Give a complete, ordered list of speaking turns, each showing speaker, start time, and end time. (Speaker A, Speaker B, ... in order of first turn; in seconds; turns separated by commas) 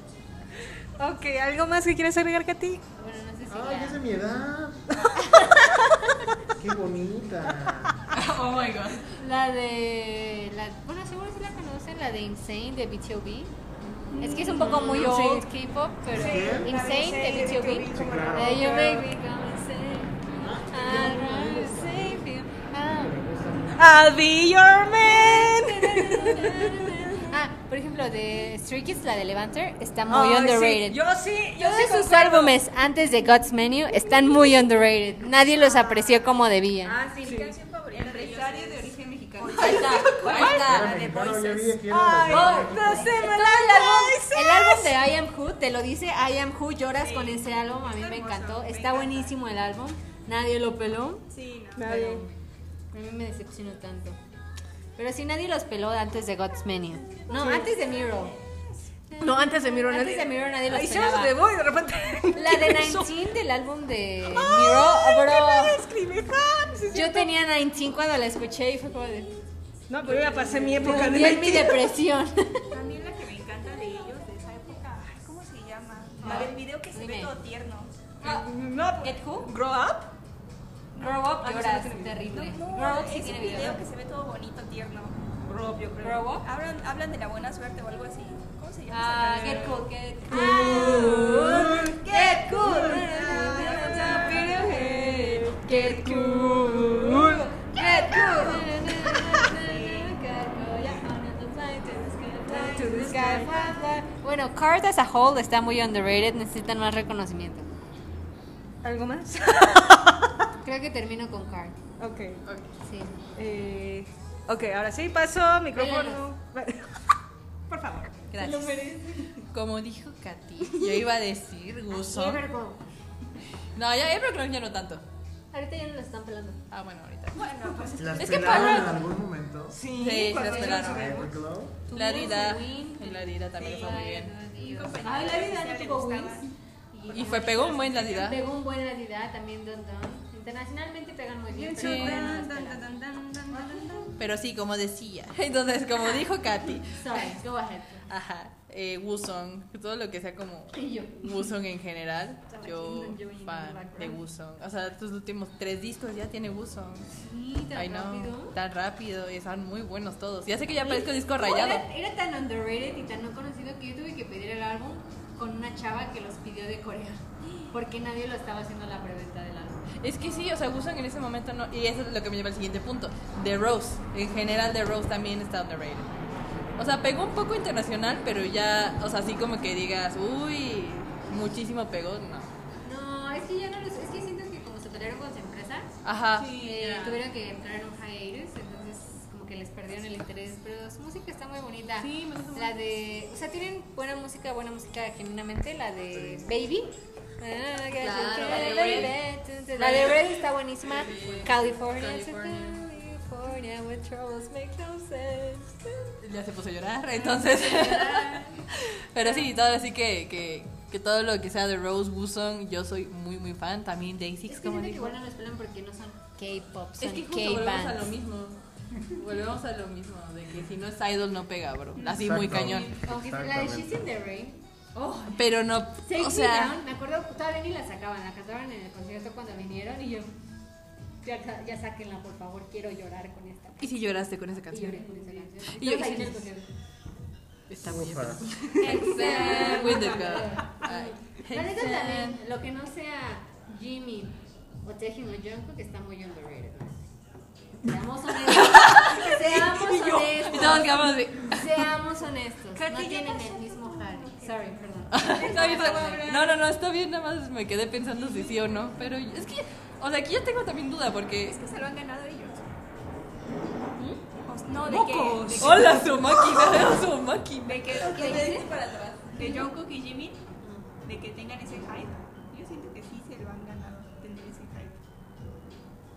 Speaker A: 1.0-2.8, Speaker B: 3.0-4.0, Speaker C: 3.5-5.0, Speaker A: 4.9-6.1, Speaker C: 6.6-8.0, Speaker D: 8.1-9.1, Speaker B: 9.2-13.5, Speaker A: 14.2-15.5, Speaker B: 14.2-23.1, Speaker E: 14.3-15.1, Speaker E: 16.1-18.8, Speaker C: 16.1-16.7, Speaker C: 17.9-18.7, Speaker A: 18.5-19.0, Speaker C: 20.4-23.9, Speaker A: 23.8-27.3, Speaker B: 25.0-31.0, Speaker A: 30.1-32.6, Speaker B: 31.6-37.0, Speaker F: 36.8-40.9, Speaker E: 37.1-41.8, Speaker A: 37.2-37.5, Speaker D: 39.6-40.9, Speaker B: 39.6-40.4, Speaker C: 40.5-43.1, Speaker A: 41.9-44.9, Speaker B: 42.3-51.2, Speaker E: 42.9-43.3, Speaker E: 47.0-49.4, Speaker E: 51.3-52.0, Speaker A: 51.8-52.2, Speaker B: 51.8-52.3, Speaker B: 52.9-54.2, Speaker B: 55.0-58.4, Speaker A: 57.3-57.7, Speaker E: 57.9-58.6, Speaker B: 59.1-61.4, Speaker A: 59.2-63.2, Speaker B: 62.3-65.8, Speaker A: 64.3-67.3, Speaker B: 66.9-69.3, Speaker A: 69.9-71.9, Speaker E: 70.1-71.0, Speaker F: 70.4-71.3, Speaker B: 70.8-72.7, Speaker E: 72.7-78.1, Speaker B: 76.2-77.3, Speaker B: 78.2-78.5, Speaker A: 78.2-80.1, Speaker B: 79.0-79.5, Speaker E: 81.0-81.3, Speaker B: 81.0-83.8, Speaker A: 81.4-82.5, Speaker E: 82.3-85.4, Speaker A: 85.5-86.3, Speaker B: 86.0-86.4, Speaker E: 86.0-95.4, Speaker B: 88.9-107.7, Speaker A: 90.4-92.0, Speaker A: 93.5-97.5, Speaker F: 93.5-94.8, Speaker E: 98.2-98.6, Speaker E: 99.5-100.2, Speaker A: 102.5-103.7, Speaker A: 108.8-110.3, Speaker B: 110.6-111.8, Speaker A: 112.0-112.4, Speaker B: 112.8-113.2, Speaker A: 113.3-117.1, Speaker B: 115.7-116.3, Speaker A: 117.7-118.1, Speaker D: 118.3-118.8, Speaker B: 118.4-119.3, Speaker D: 119.5-122.4, Speaker B: 121.9-122.8, Speaker D: 123.7-125.0, Speaker B: 125.5-126.6, Speaker D: 126.7-127.4, Speaker E: 127.3-128.5, Speaker C: 128.0-129.8, Speaker D: 128.2-129.0, Speaker A: 129.7-131.3, Speaker D: 129.9-131.2, Speaker B: 130.4-130.8, Speaker C: 130.7-131.8, Speaker B: 131.9-136.4, Speaker D: 131.9-134.3, Speaker E: 133.6-136.5, Speaker B: 136.9-142.9, Speaker D: 137.1-138.4, Speaker E: 141.7-143.9, Speaker F: 141.7-142.7, Speaker D: 141.8-142.3, Speaker B: 143.5-144.1, Speaker D: 144.2-147.3, Speaker B: 146.9-148.1, Speaker D: 148.1-157.1, Speaker B: 150.7-151.5, Speaker B: 152.6-154.2, Speaker B: 157.2-158.5, Speaker D: 157.7-161.8, Speaker B: 160.8-169.8, Speaker D: 170.0-176.1, Speaker D: 176.8-182.5, Speaker B: 182.8-185.9, Speaker D: 186.0-187.2, Speaker F: 186.3-186.9, Speaker B: 186.4-206.1, Speaker D: 192.0-192.7, Speaker C: 196.1-196.6, Speaker D: 198.0-199.2, Speaker D: 199.8-202.8, Speaker D: 206.2-215.2, Speaker B: 207.4-208.5, Speaker B: 214.5-218.1, Speaker D: 217.0-222.9, Speaker C: 222.1-224.0, Speaker B: 222.8-224.6, Speaker D: 224.9-226.8, Speaker B: 226.0-230.3, Speaker B: 231.2-234.1, Speaker D: 233.8-236.4, Speaker B: 234.7-236.7, Speaker D: 237.7-242.4, Speaker C: 237.8-238.5, Speaker B: 238.8-247.1, Speaker B: 247.8-256.4, Speaker D: 248.4-251.8, Speaker F: 252.8-254.3, Speaker D: 255.1-261.6, Speaker E: 255.3-256.6, Speaker E: 258.1-258.9, Speaker E: 261.4-262.7, Speaker E: 264.4-266.7, Speaker A: 264.9-265.9, Speaker D: 265.6-268.4, Speaker E: 267.6-268.7, Speaker F: 267.9-269.6, Speaker B: 268.1-268.6, Speaker E: 269.3-270.4, Speaker E: 271.0-275.0